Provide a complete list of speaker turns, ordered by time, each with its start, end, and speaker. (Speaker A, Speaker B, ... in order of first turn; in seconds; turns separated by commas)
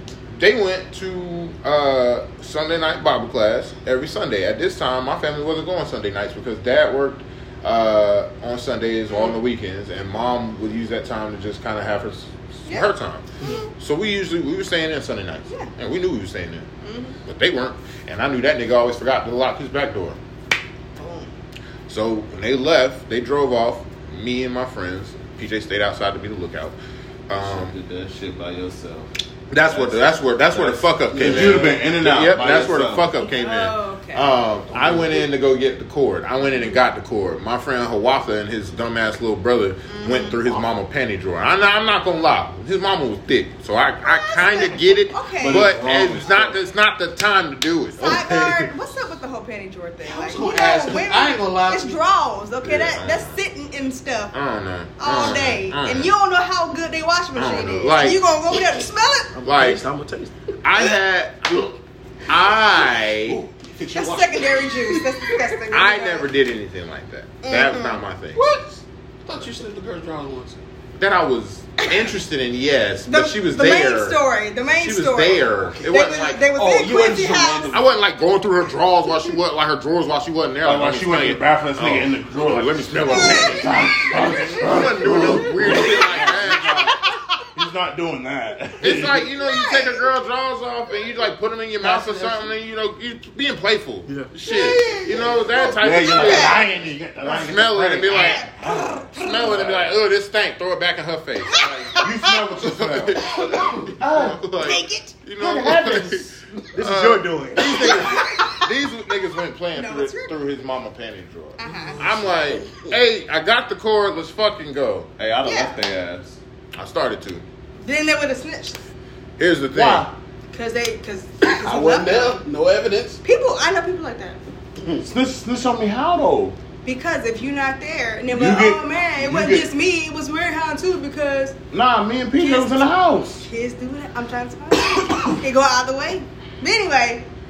Speaker A: 0.4-16.7, Speaker B: 9.1-9.4, Speaker B: 12.7-12.9, Speaker B: 13.4-13.7, Speaker B: 16.8-17.2, Speaker A: 17.2-20.2, Speaker B: 21.0-21.3, Speaker A: 21.9-26.8, Speaker A: 27.3-27.8, Speaker C: 27.4-29.1, Speaker A: 29.5-48.7, Speaker C: 29.6-33.1, Speaker D: 31.1-31.8, Speaker B: 33.2-34.3, Speaker C: 34.7-35.2, Speaker B: 39.9-40.6, Speaker B: 44.0-45.8, Speaker C: 45.4-46.6, Speaker B: 48.0-54.3, Speaker D: 50.0-52.0, Speaker A: 52.6-53.4, Speaker A: 54.3-56.1, Speaker B: 55.0-59.3, Speaker A: 57.4-58.2, Speaker E: 59.3-60.5, Speaker A: 59.4-59.8, Speaker A: 60.6-61.7, Speaker A: 62.3-63.4, Speaker D: 63.2-65.0, Speaker B: 63.9-66.3, Speaker A: 65.7-68.5, Speaker B: 67.4-68.0, Speaker D: 68.3-70.6, Speaker A: 71.0-74.2, Speaker B: 73.1-77.8, Speaker A: 74.8-76.5, Speaker D: 75.8-77.9, Speaker A: 77.7-86.9, Speaker C: 80.6-89.3, Speaker A: 88.8-96.6, Speaker B: 89.4-90.0, Speaker E: 91.8-92.5, Speaker E: 94.1-94.3, Speaker B: 94.5-96.7, Speaker C: 95.6-99.9, Speaker A: 97.2-98.5, Speaker B: 98.1-99.2, Speaker A: 99.1-102.0, Speaker B: 101.5-102.3, Speaker C: 101.9-104.4, Speaker A: 102.5-115.1, Speaker B: 104.6-105.2, Speaker C: 105.4-105.8, Speaker E: 105.4-108.3, Speaker B: 107.6-108.7, Speaker B: 109.7-110.3, Speaker B: 111.6-112.1, Speaker D: 111.7-112.1, Speaker C: 115.2-116.4, Speaker B: 115.4-115.8, Speaker A: 116.8-117.4, Speaker B: 117.8-118.8, Speaker A: 119.4-120.1, Speaker C: 119.7-120.1, Speaker B: 120.5-122.4, Speaker D: 121.4-123.2, Speaker B: 123.2-124.4, Speaker C: 125.0-126.6, Speaker B: 126.8-131.6, Speaker C: 128.3-129.7, Speaker C: 131.7-133.5, Speaker B: 132.4-137.3